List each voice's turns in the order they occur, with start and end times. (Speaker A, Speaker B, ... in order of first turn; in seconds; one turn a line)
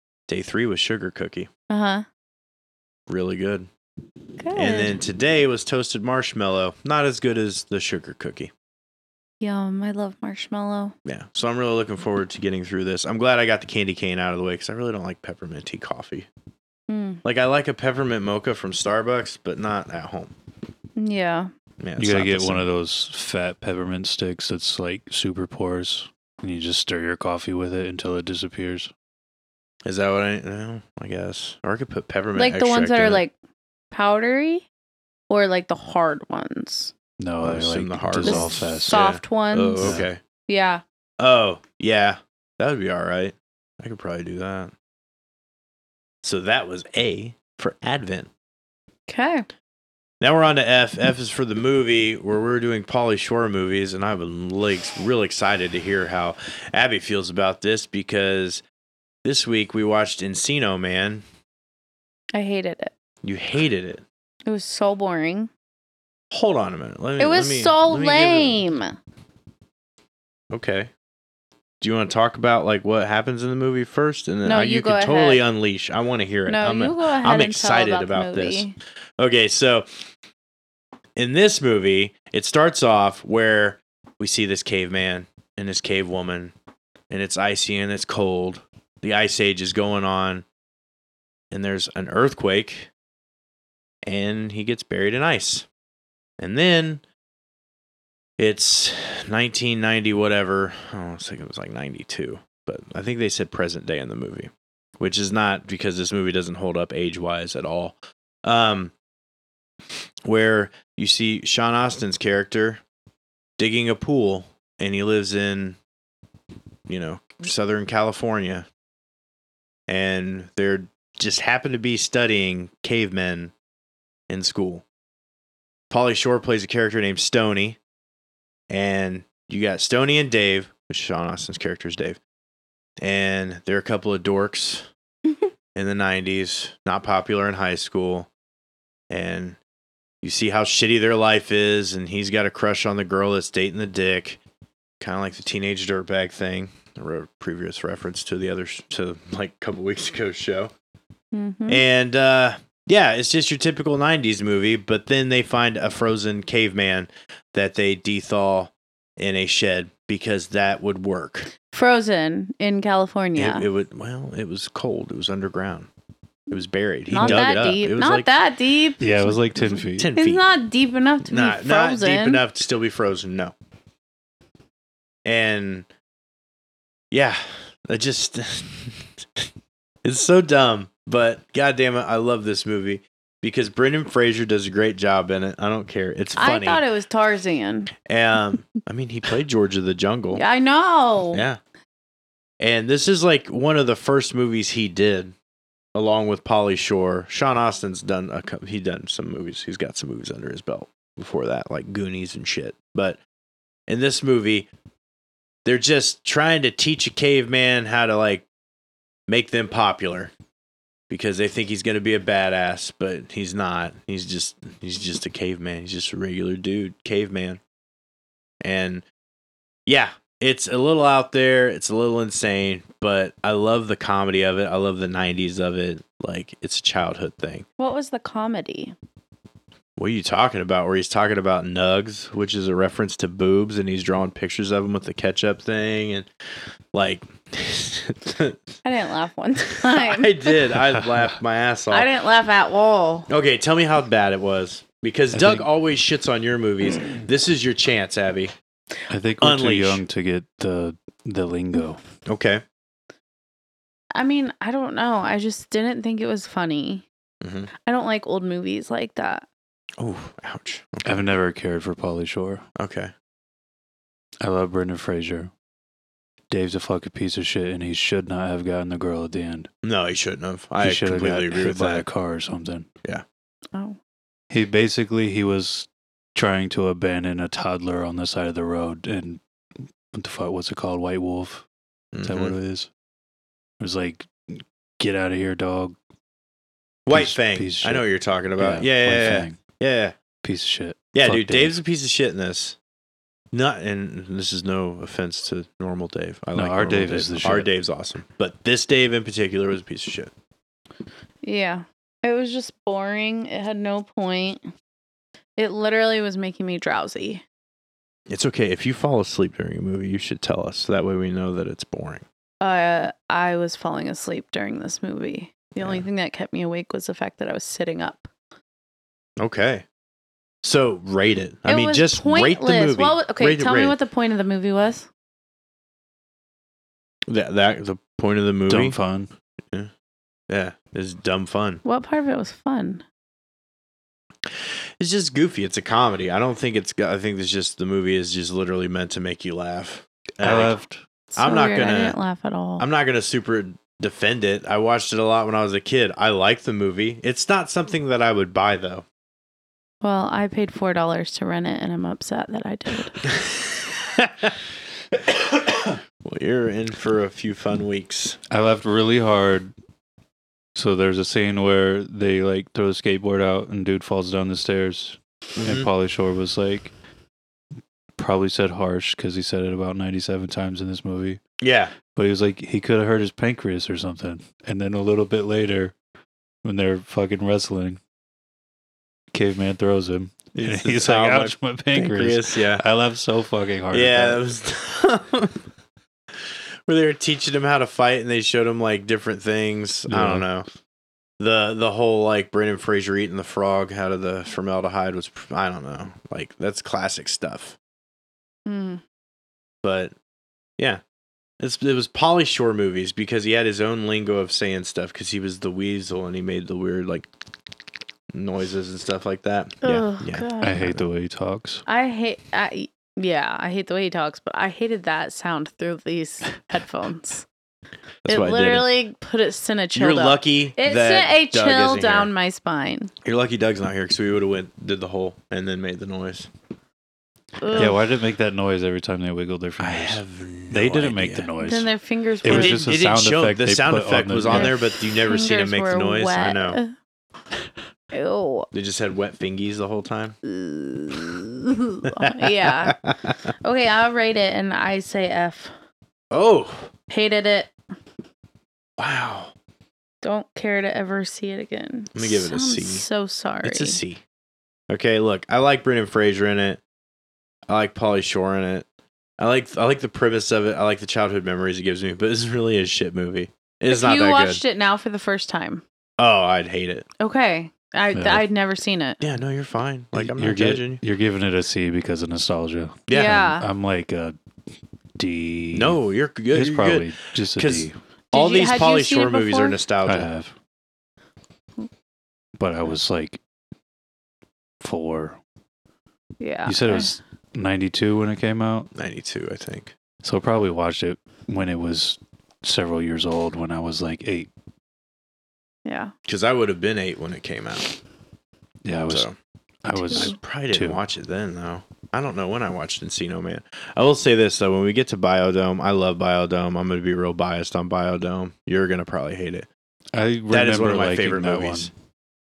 Speaker A: 0.3-1.5
Speaker B: 1.7-2.0
Speaker A: 3.1-3.7
Speaker B: 4.4-5.0
Speaker A: 4.5-8.5
Speaker B: 9.4-10.9
Speaker A: 11.0-16.3
Speaker B: 16.9-17.2
Speaker A: 17.2-20.3
Speaker B: 21.0-21.5
Speaker A: 21.8-22.6
Speaker C: 22.0-28.9
Speaker A: 29.8-33.2
Speaker B: 32.3-33.3
Speaker B: 33.9-34.6
Speaker B: 35.3-36.9
Speaker C: 37.2-39.0
Speaker A: 37.4-40.2
Speaker B: 38.2-40.8
Speaker C: 39.8-40.0
Speaker A: 41.2-44.7
Speaker A: 46.2-48.3
Speaker B: 49.1-49.5
Speaker A: 50.2-58.6
Speaker A: 59.2-61.2
Speaker B: 62.3-62.9
Speaker A: 63.2-64.0
Speaker B: 64.5-65.5
Speaker A: 66.3-68.6
Speaker B: 67.2-68.9
Speaker A: 70.5-70.9
Speaker A: 71.8-78.7
Speaker B: 74.4-75.4
Speaker B: 76.5-78.8
Speaker A: 79.2-79.9
Speaker A: 81.2-86.5
Speaker A: 87.1-90.4
Speaker A: 91.5-92.9
Speaker A: 94.0-95.7
Speaker A: 96.4-97.0
Speaker A: 98.4-108.9
Speaker A: 110.2-112.8
Speaker A: 113.6-115.8
Speaker A: 116.9-118.7
Speaker A: 119.9-123.5
Speaker A: 124.3-124.8
Speaker A: 125.9-127.8
Speaker A: 128.7-132.2
Speaker A: 133.0-134.9
Speaker A: 135.7-138.3
Speaker A: 139.1-139.6
Speaker A: 140.2-144.4
Speaker A: 145.0-150.7
Speaker B: 151.3-151.8
Speaker A: 151.7-161.5
Speaker B: 161.7-163.7
Speaker A: 163.3-165.9
Speaker A: 166.5-168.3
Speaker B: 167.1-172.4
Speaker C: 167.2-167.6
Speaker C: 169.0-170.1
Speaker A: 169.8-170.4
Speaker A: 171.2-173.5
Speaker A: 175.2-175.9
Speaker A: 177.1-179.5
Speaker A: 180.0-186.8
Speaker B: 186.3-187.9
Speaker A: 188.0-190.4
Speaker B: 190.3-191.4
Speaker A: 191.3-191.6
Speaker A: 192.6-195.3
Speaker A: 195.9-203.2
Speaker A: 203.9-204.7
Speaker A: 205.6-208.4
Speaker A: 209.3-210.3
Speaker A: 211.1-217.6
Speaker A: 218.6-219.0
Speaker A: 219.8-227.7
Speaker B: 227.8-228.9
Speaker A: 230.0-236.3
Speaker A: 236.9-238.6
Speaker B: 238.8-240.6
Speaker A: 239.7-242.1
Speaker B: 241.9-243.3
Speaker A: 243.3-248.5
Speaker C: 245.3-245.7
Speaker C: 249.1-252.0
Speaker A: 249.4-250.0
Speaker A: 252.2-252.6
Speaker B: 254.1-257.1
Speaker A: 257.4-257.7
Speaker B: 257.9-259.4
Speaker A: 260.0-261.2
Speaker C: 261.0-262.6
Speaker A: 262.8-263.1
Speaker C: 264.4-265.5
Speaker C: 266.5-269.7
Speaker A: 269.8-272.1
Speaker C: 270.8-272.9
Speaker C: 274.5-279.4
Speaker C: 280.1-281.6
Speaker A: 282.1-282.5
Speaker C: 282.2-282.9
Speaker C: 283.8-285.9
Speaker A: 287.1-290.1
Speaker C: 287.1-288.0
Speaker C: 288.6-289.6
Speaker C: 290.4-291.8
Speaker A: 291.1-292.8
Speaker A: 293.5-300.3
Speaker C: 296.5-297.7
Speaker B: 301.4-304.6
Speaker B: 305.6-307.4
Speaker A: 308.3-312.2
Speaker B: 312.6-318.3
Speaker A: 315.8-316.0
Speaker A: 319.4-319.8
Speaker A: 320.6-323.9
Speaker B: 321.6-325.1
Speaker A: 327.3-329.0
Speaker C: 328.7-329.3
Speaker A: 330.5-331.8
Speaker B: 331.8-333.0
Speaker A: 334.5-340.8
Speaker C: 340.4-341.0
Speaker B: 341.3-342.9
Speaker A: 341.4-342.2
Speaker A: 342.8-349.0
Speaker B: 350.0-353.2
Speaker A: 353.3-354.5
Speaker A: 355.1-358.4
Speaker C: 358.5-359.7
Speaker C: 360.7-366.9
Speaker A: 365.6-365.9
Speaker C: 368.2-371.4
Speaker A: 371.6-371.9
Speaker C: 372.1-375.9
Speaker C: 376.6-378.0
Speaker C: 379.3-384.4
Speaker A: 380.5-382.8
Speaker A: 383.9-385.6
Speaker A: 386.9-390.7
Speaker C: 390.1-390.4
Speaker A: 391.4-397.8
Speaker B: 398.6-399.0
Speaker A: 399.8-400.1
Speaker A: 401.6-407.3
Speaker A: 408.3-411.0
Speaker B: 409.8-410.8
Speaker C: 410.6-411.8
Speaker B: 411.9-417.4
Speaker A: 418.2-418.9
Speaker B: 418.3-423.1
Speaker A: 419.9-422.3
Speaker A: 423.2-426.5
Speaker B: 427.6-428.0
Speaker A: 427.7-427.9
Speaker C: 427.8-431.9
Speaker A: 429.8-431.5
Speaker B: 431.6-432.8
Speaker C: 432.4-434.8
Speaker A: 432.4-436.8
Speaker B: 434.5-436.9
Speaker B: 438.1-438.7
Speaker A: 438.7-440.4
Speaker B: 440.4-443.0
Speaker A: 442.1-443.3
Speaker B: 443.6-445.7
Speaker A: 446.3-446.9
Speaker B: 447.1-447.7
Speaker A: 449.0-449.5
Speaker B: 450.2-454.0
Speaker A: 452.1-453.0
Speaker A: 453.6-454.2
Speaker A: 454.9-456.8
Speaker A: 457.7-458.9
Speaker A: 459.4-464.6
Speaker B: 463.9-465.8
Speaker A: 466.2-467.1
Speaker B: 467.2-469.2
Speaker C: 468.1-468.4
Speaker A: 469.2-471.0
Speaker C: 470.1-474.4
Speaker A: 473.1-473.5
Speaker B: 473.1-473.6
Speaker C: 475.2-476.0
Speaker A: 475.7-480.3
Speaker C: 476.5-477.9
Speaker B: 478.3-479.8
Speaker C: 480.0-480.5
Speaker C: 482.6-483.4
Speaker C: 484.8-485.4
Speaker B: 486.4-487.2
Speaker C: 486.6-488.9
Speaker A: 488.9-489.9
Speaker C: 490.2-494.5
Speaker B: 495.8-496.1
Speaker A: 496.2-497.9
Speaker C: 498.8-499.3
Speaker A: 499.1-499.4
Speaker C: 499.8-501.0
Speaker A: 500.1-509.7
Speaker C: 510.1-511.9
Speaker A: 510.5-511.9